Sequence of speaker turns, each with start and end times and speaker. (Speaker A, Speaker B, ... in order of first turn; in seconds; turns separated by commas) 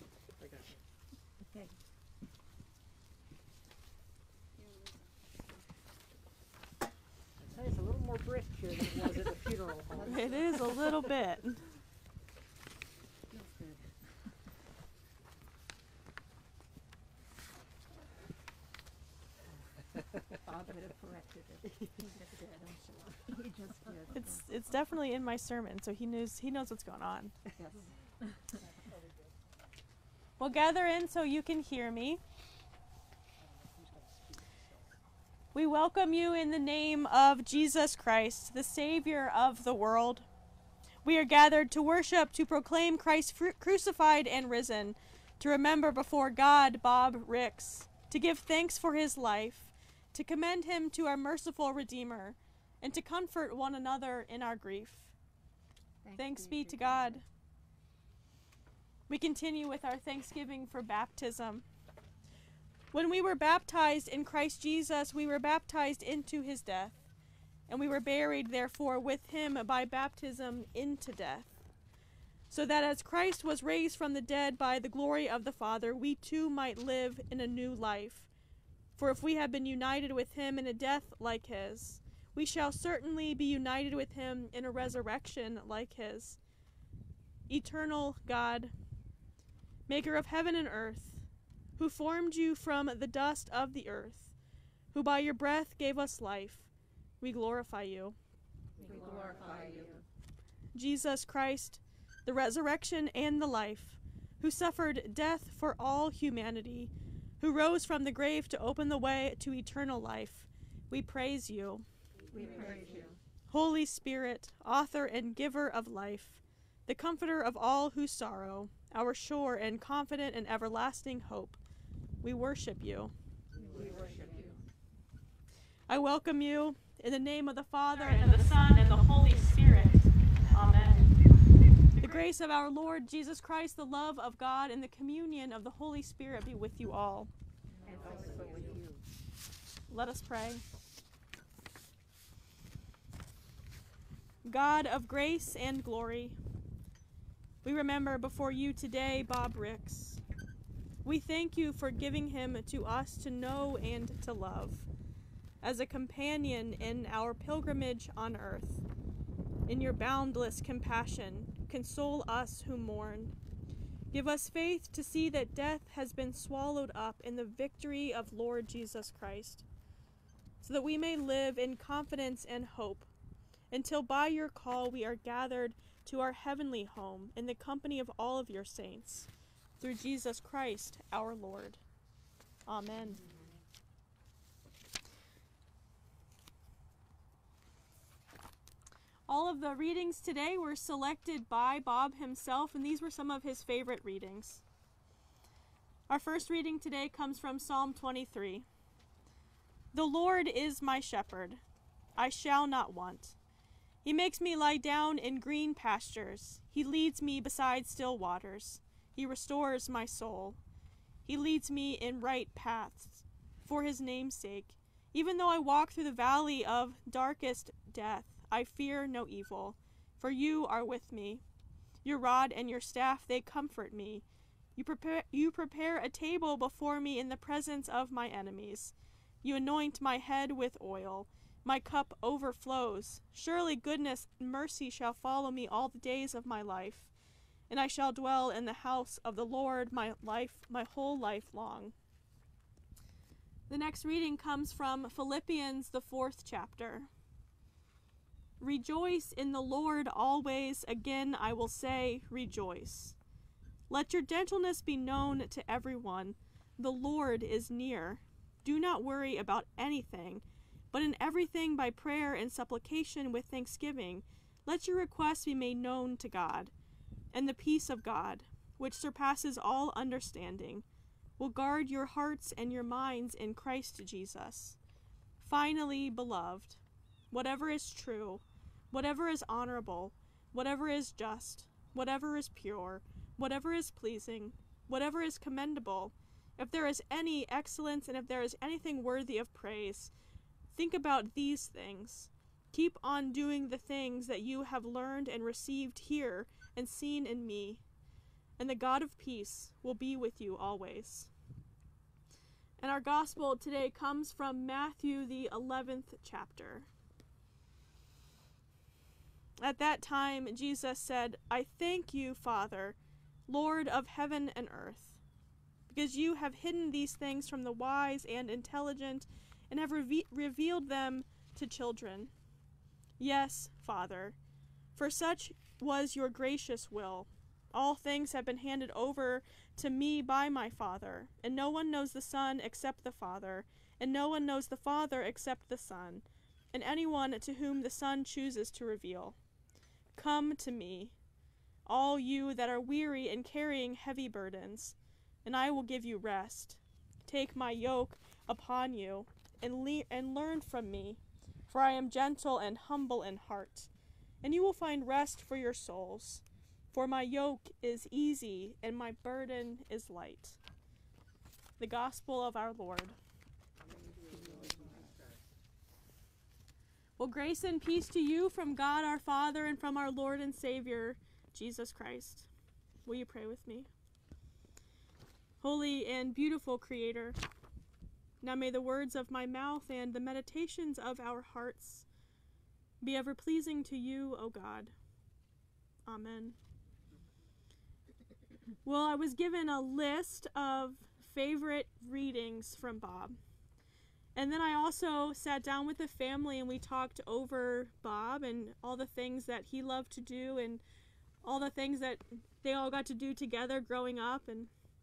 Speaker A: 0.4-0.8, Speaker A: 7.4-10.5, Speaker B: 9.9-10.8, Speaker C: 10.1-11.6, Speaker B: 13.3-13.8, Speaker B: 20.4-24.5, Speaker C: 24.1-27.3, Speaker B: 27.5-27.9, Speaker C: 30.4-32.2, Speaker C: 35.5-40.2, Speaker C: 41.0-55.1, Speaker B: 56.0-57.2, Speaker C: 56.1-57.2, Speaker C: 59.1-61.6, Speaker C: 62.9-67.0, Speaker C: 67.7-71.6, Speaker C: 72.5-78.3, Speaker C: 79.0-86.4, Speaker C: 87.5-88.7, Speaker C: 89.9-91.2, Speaker C: 91.8-94.3, Speaker C: 94.9-96.7, Speaker C: 97.2-98.2, Speaker B: 98.8-100.0, Speaker C: 100.7-111.8, Speaker B: 112.3-113.2, Speaker C: 113.5-121.6, Speaker C: 122.2-123.1, Speaker B: 123.5-124.6, Speaker C: 125.9-131.1, Speaker B: 128.2-128.6, Speaker C: 132.0-137.3, Speaker B: 137.8-139.0, Speaker C: 139.9-140.6, Speaker C: 144.4-146.4, Speaker C: 147.6-150.2, Speaker C: 151.0-154.9, Speaker C: 155.6-158.8, Speaker C: 159.7-163.3, Speaker C: 164.1-169.6, Speaker C: 170.6-173.1, Speaker C: 173.7-179.3, Speaker C: 179.8-181.8, Speaker C: 182.7-183.2, Speaker C: 189.3-194.6, Speaker C: 196.1-198.7, Speaker C: 199.9-201.6, Speaker C: 202.2-203.3, Speaker C: 204.0-210.6, Speaker C: 211.2-221.4, Speaker C: 222.0-224.2, Speaker C: 224.8-237.1, Speaker C: 237.7-241.9, Speaker C: 243.7-247.1, Speaker C: 248.6-253.2, Speaker C: 253.9-266.7, Speaker C: 267.3-270.8, Speaker C: 271.4-274.8, Speaker C: 275.4-290.1, Speaker C: 290.7-297.8, Speaker C: 298.6-301.3, Speaker C: 302.8-306.9, Speaker C: 309.6-313.0, Speaker C: 313.5-315.2, Speaker C: 315.9-322.3, Speaker C: 323.2-324.4, Speaker C: 324.9-339.4, Speaker C: 340.1-341.1, Speaker C: 341.9-353.9, Speaker C: 354.4-360.6, Speaker C: 361.8-363.1, Speaker B: 363.8-365.3, Speaker C: 367.2-372.5, Speaker C: 373.0-373.9, Speaker C: 375.6-377.4, Speaker C: 378.4-382.0, Speaker C: 383.0-384.9, Speaker C: 386.1-386.6, Speaker C: 388.8-393.4, Speaker C: 394.3-400.8, Speaker C: 401.4-404.7